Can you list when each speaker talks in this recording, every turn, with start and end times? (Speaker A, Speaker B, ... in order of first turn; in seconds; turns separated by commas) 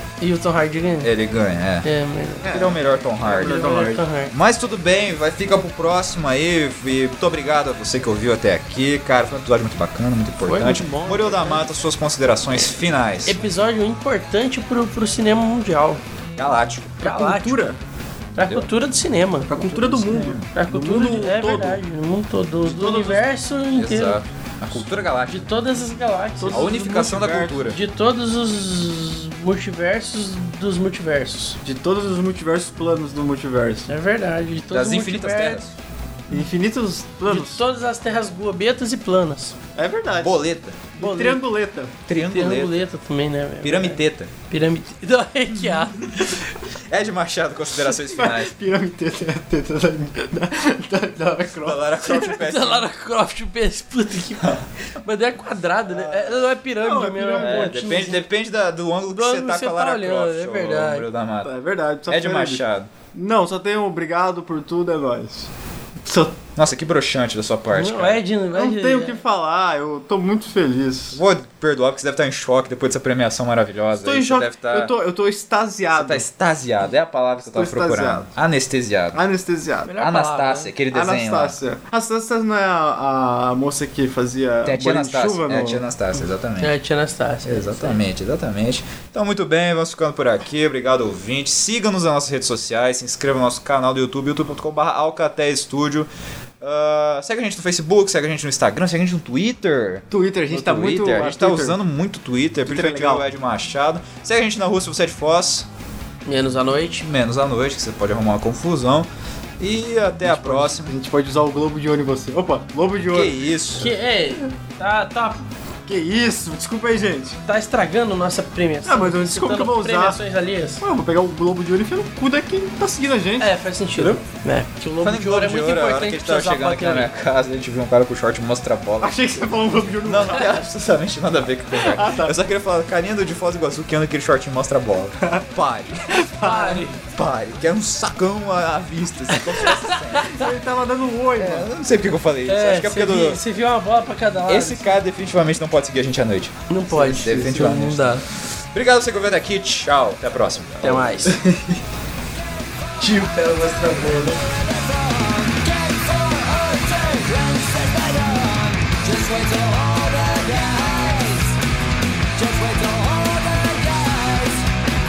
Speaker A: 0.2-1.1, Speaker B: 1.0-1.9, Speaker A: 1.8-2.5, Speaker C: 2.4-4.0, Speaker B: 2.4-3.7, Speaker A: 3.2-4.3, Speaker B: 4.3-13.4, Speaker A: 10.5-11.5, Speaker C: 10.5-11.6, Speaker A: 13.3-16.0, Speaker B: 16.4-17.0, Speaker A: 17.0-17.7, Speaker C: 17.0-17.8, Speaker A: 18.4-24.2, Speaker B: 18.4-18.7, Speaker C: 19.5-21.8, Speaker B: 19.8-20.5, Speaker C: 22.6-23.2, Speaker B: 23.8-25.4, Speaker A: 25.3-26.7, Speaker C: 26.4-27.6, Speaker B: 26.5-27.8, Speaker A: 27.7-31.6, Speaker C: 31.6-33.9, Speaker A: 33.9-35.6, Speaker B: 34.7-35.7, Speaker C: 36.3-37.6, Speaker A: 37.3-39.6, Speaker C: 39.8-40.4, Speaker B: 40.1-40.9, Speaker C: 41.0-42.0, Speaker A: 41.0-41.4, Speaker B: 42.1-42.8, Speaker A: 42.3-46.5, Speaker B: 43.6-44.3, Speaker B: 45.5-46.2, Speaker B: 46.9-48.5, Speaker C: 47.9-52.0, Speaker B: 51.6-52.9, Speaker A: 52.0-58.2, Speaker B: 54.4-54.6, Speaker B: 55.9-56.5, Speaker C: 56.8-57.8, Speaker B: 57.4-61.5, Speaker A: 59.1-61.0, Speaker C: 61.4-62.6, Speaker B: 62.1-62.9, Speaker C: 63.1-65.5, Speaker C: 66.0-66.4, Speaker B: 66.6-68.2, Speaker A: 67.7-69.2, Speaker C: 68.5-71.2, Speaker B: 71.1-74.9, Speaker C: 74.0-76.2, Speaker B: 75.9-79.2, Speaker C: 77.5-78.3, Speaker C: 79.1-79.9, Speaker A: 79.9-80.7, Speaker B: 80.0-81.6, Speaker C: 80.9-85.8, Speaker B: 84.7-86.7, Speaker A: 86.6-88.0, Speaker B: 87.5-96.1, Speaker B: 96.6-105.7, Speaker C: 100.1-101.8, Speaker C: 102.7-103.3, Speaker A: 106.3-107.1, Speaker B: 107.0-109.1, Speaker B: 109.6-110.9, Speaker C: 110.2-113.4, Speaker B: 113.1-114.0, Speaker A: 113.8-115.5, Speaker C: 115.9-117.4, Speaker A: 117.5-120.8, Speaker C: 118.8-120.2, Speaker C: 120.8-124.2, Speaker A: 123.4-127.1, Speaker B: 125.0-129.3, Speaker C: 129.0-130.6, Speaker B: 130.0-136.2, Speaker C: 131.8-132.4, Speaker C: 135.2-135.5, Speaker C: 136.1-136.9, Speaker A: 136.4-137.0, Speaker B: 137.1-140.4, Speaker A: 139.5-140.4, Speaker C: 140.2-141.7, Speaker B: 141.4-143.4, Speaker A: 142.5-144.9, Speaker B: 144.5-151.2, Speaker A: 146.7-148.2, Speaker A: 150.8-151.4, Speaker C: 151.3-151.8, Speaker D: 153.1-161.6, Speaker A: 153.4-154.4, Speaker C: 153.6-154.2, Speaker D: 162.4-164.7